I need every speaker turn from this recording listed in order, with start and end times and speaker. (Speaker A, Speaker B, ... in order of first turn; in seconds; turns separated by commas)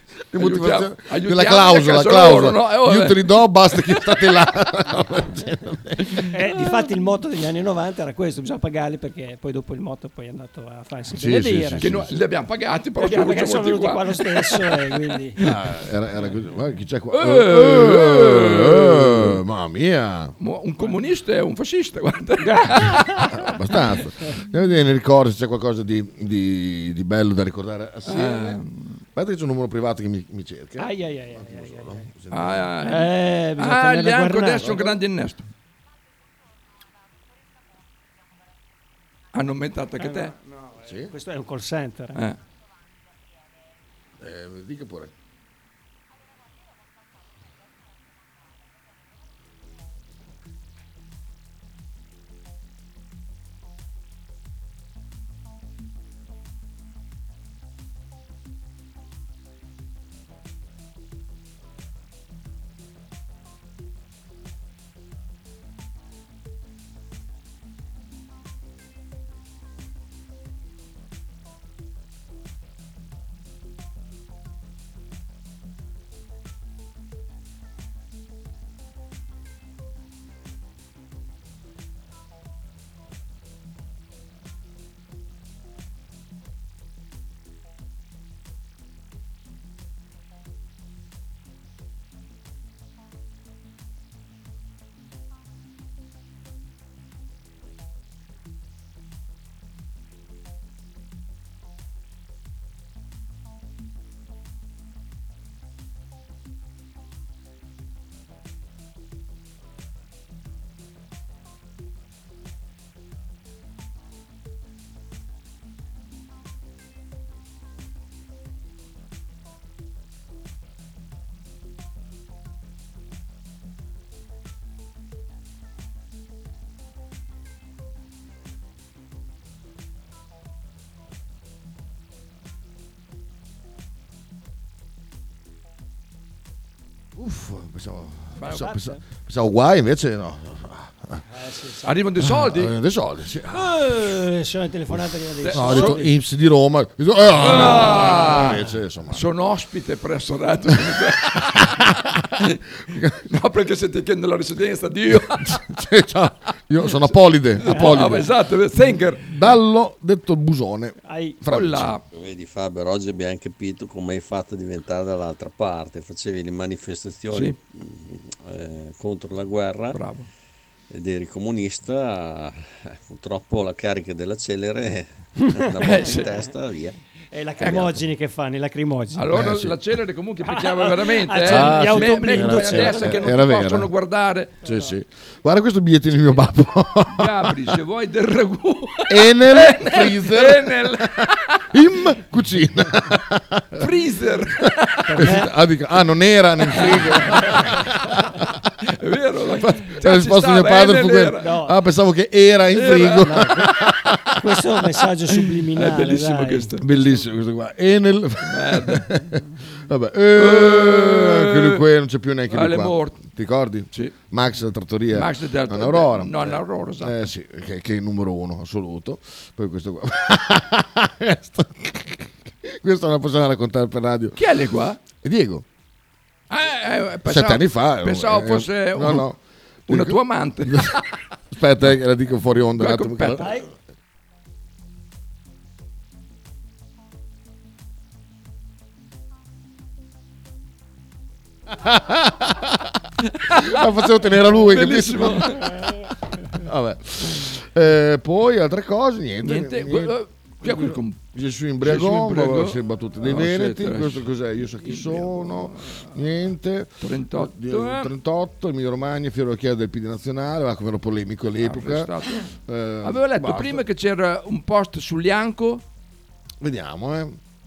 Speaker A: 0.3-6.3, Speaker B: 0.3-4.1, Speaker C: 6.3-11.9, Speaker A: 11.1-12.1, Speaker B: 11.8-15.6, Speaker C: 13.0-15.4, Speaker A: 15.4-20.3, Speaker B: 17.1-19.4, Speaker B: 20.4-23.3, Speaker C: 22.4-23.4, Speaker A: 23.3-28.6, Speaker B: 28.1-28.9, Speaker A: 29.1-32.7, Speaker C: 30.8-32.0, Speaker B: 32.3-35.4, Speaker C: 32.8-34.9, Speaker B: 39.3-40.3, Speaker C: 40.0-42.2, Speaker A: 40.9-41.1, Speaker A: 44.2-45.1, Speaker A: 137.2-141.2, Speaker B: 138.4-138.8, Speaker C: 138.6-138.9, Speaker C: 141.3-142.0, Speaker B: 141.8-142.7, Speaker A: 142.2-143.9, Speaker C: 143.5-146.1, Speaker B: 145.4-146.0, Speaker A: 145.5-149.2, Speaker B: 147.4-151.9, Speaker A: 151.3-153.2, Speaker B: 153.2-155.7, Speaker A: 155.4-158.3, Speaker B: 156.8-159.3, Speaker C: 157.6-158.3, Speaker A: 159.2-161.9, Speaker C: 161.0-161.4, Speaker B: 161.5-162.0, Speaker D: 162.1-170.0, Speaker B: 167.3-167.6, Speaker B: 169.9-170.3, Speaker D: 170.9-176.9, Speaker C: 175.4-176.3, Speaker B: 175.8-176.3, Speaker C: 177.3-179.3, Speaker D: 177.7-177.9, Speaker B: 179.1-184.6, Speaker A: 179.3-179.8, Speaker C: 180.4-183.2, Speaker A: 181.4-183.9, Speaker A: 184.6-187.6, Speaker C: 184.6-184.9, Speaker B: 187.1-191.6, Speaker A: 189.1-191.1, Speaker A: 191.7-193.9, Speaker B: 193.8-195.2, Speaker C: 195.1-195.5, Speaker A: 195.1-198.5, Speaker C: 196.8-197.6, Speaker B: 196.8-197.8, Speaker B: 198.8-201.5, Speaker A: 199.6-204.4, Speaker C: 201.4-201.8, Speaker B: 202.7-204.0, Speaker C: 203.2-203.7, Speaker C: 204.3-206.8, Speaker B: 205.7-206.9, Speaker A: 206.8-224.4, Speaker B: 208.4-209.2, Speaker B: 210.3-211.8, Speaker B: 212.5-213.2, Speaker B: 215.1-217.2, Speaker B: 224.3-225.0, Speaker A: 225.2-225.6, Speaker B: 226.5-229.3, Speaker A: 227.2-231.0, Speaker B: 229.9-231.0, Speaker A: 231.5-233.6, Speaker B: 232.8-233.5, Speaker C: 233.4-233.7, Speaker A: 241.7-242.9, Speaker B: 243.3-243.8, Speaker A: 243.5-245.7, Speaker B: 244.4-245.8, Speaker A: 246.5-263.8, Speaker B: 249.4-251.2, Speaker B: 251.8-254.3, Speaker B: 254.8-256.1, Speaker B: 257.0-258.1, Speaker B: 261.6-262.5, Speaker B: 263.0-265.8, Speaker A: 266.6-267.4